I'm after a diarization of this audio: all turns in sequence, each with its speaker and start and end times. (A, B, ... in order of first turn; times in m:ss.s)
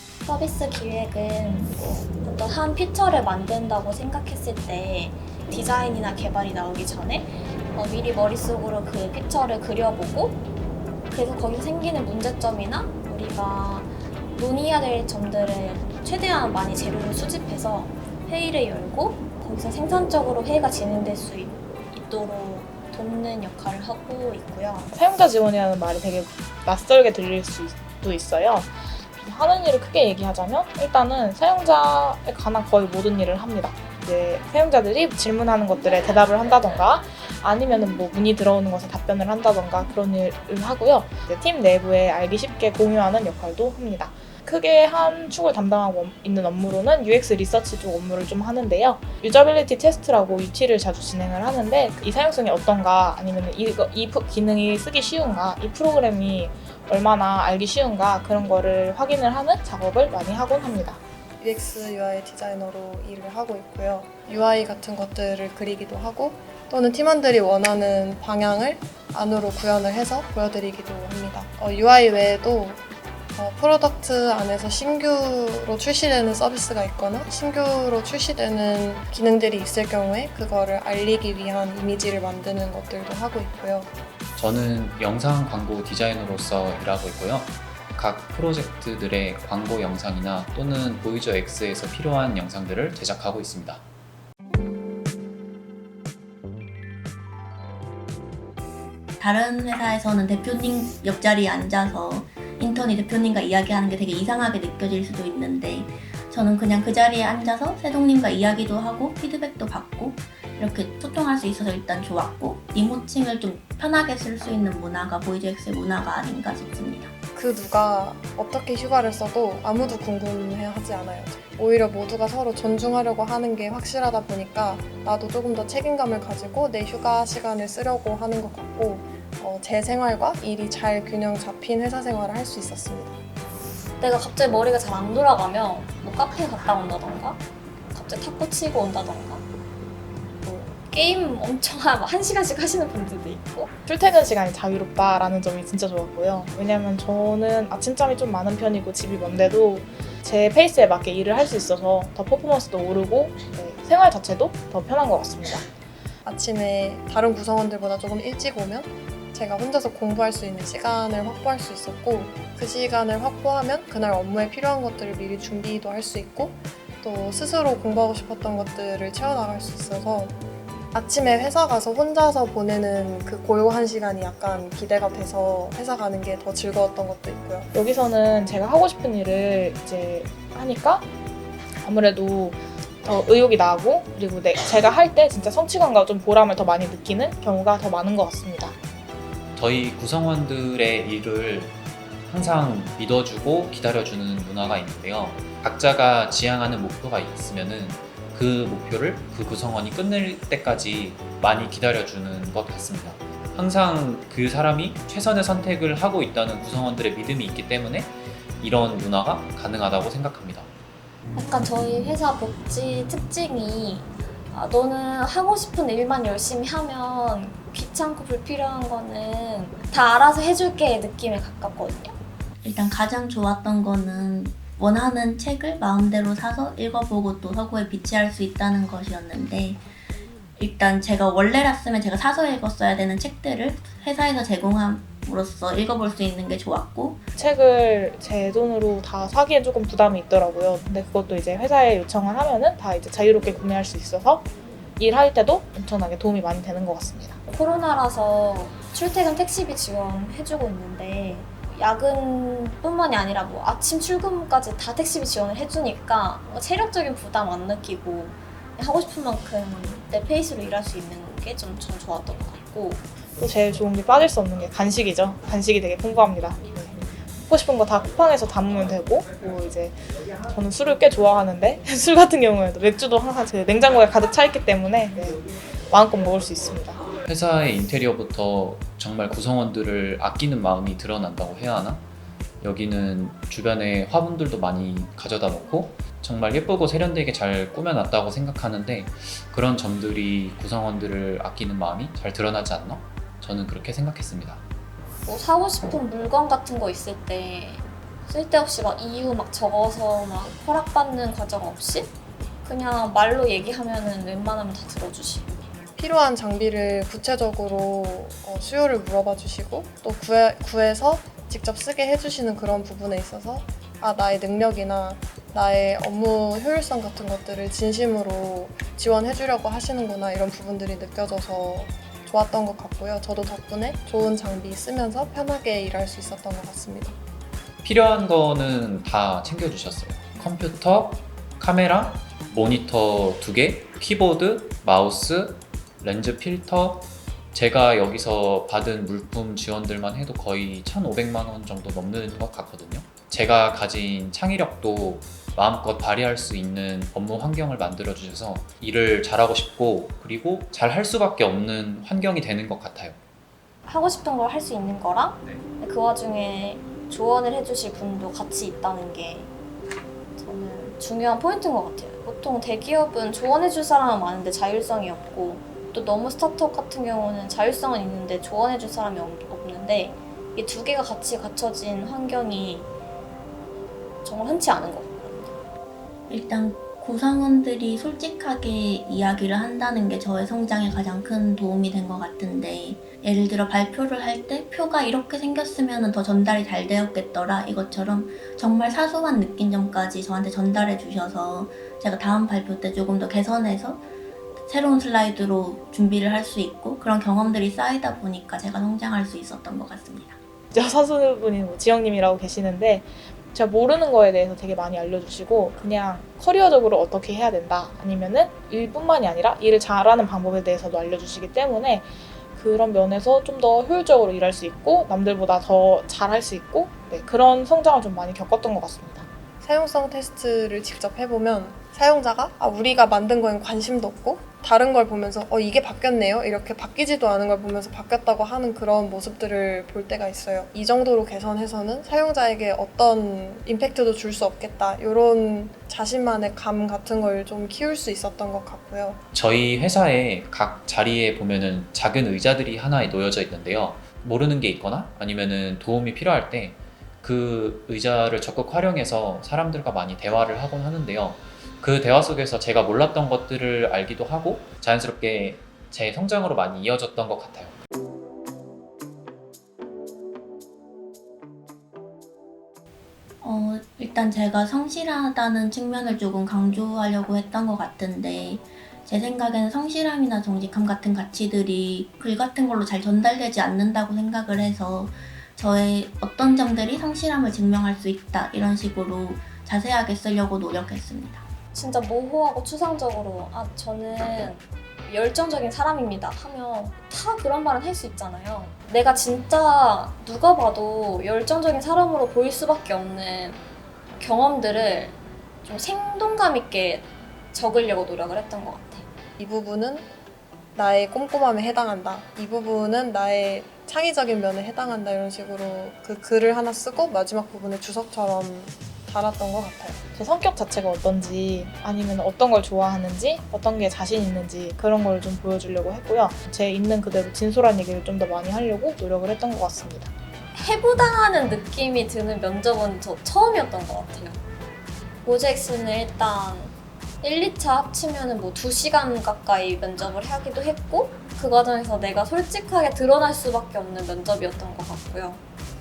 0:00.2-0:10.4 A
0:11.1-0:24.9 A
0:24.9-1:01.0 B
1:01.4-1:12.8 C
1:13.4-1:23.9 C
1:24.4-1:33.8 D
1:39.2-1:57.1 E
1:57.4-2:13.2 C
2:14.0-2:19.5 A
2:20.4-2:23.7 A
2:23.9-2:35.7 B
2:36.2-2:50.4 C
2:50.9-2:57.7 C
2:57.7-3:01.1 B
3:01.8-3:08.8 B
3:09.6-3:30.7 D
3:31.4-3:42.2 A
3:42.6-3:49.8 E
3:50.6-3:57.3 E
3:57.4-4:07.4 B
4:07.5-4:23.0 A
4:23.4-4:37.0 B
4:37.3-4:42.0 D
4:42.6-4:54.6 D
4:55.2-5:05.7 A
5:06.0-5:27.2 C
5:27.8-5:53.2 D
5:53.8-5:59.5 A
6:00.4-6:12.9 A
6:14.2-6:15.5 A
6:16.3-6:34.0 E
6:34.7-6:40.4 E
6:40.7-6:59.3 B
6:59.6-7:19.2 C
7:19.3-7:37.8 D
7:43.4-8:01.4 E
8:01.7-8:13.6 A
8:14.1-8:19.1 A
8:19.4-8:20.1 C
8:20.8-8:30.0 C
8:30.2-8:40.1 B
8:40.6-8:44.4 A
8:45.2-8:55.4 A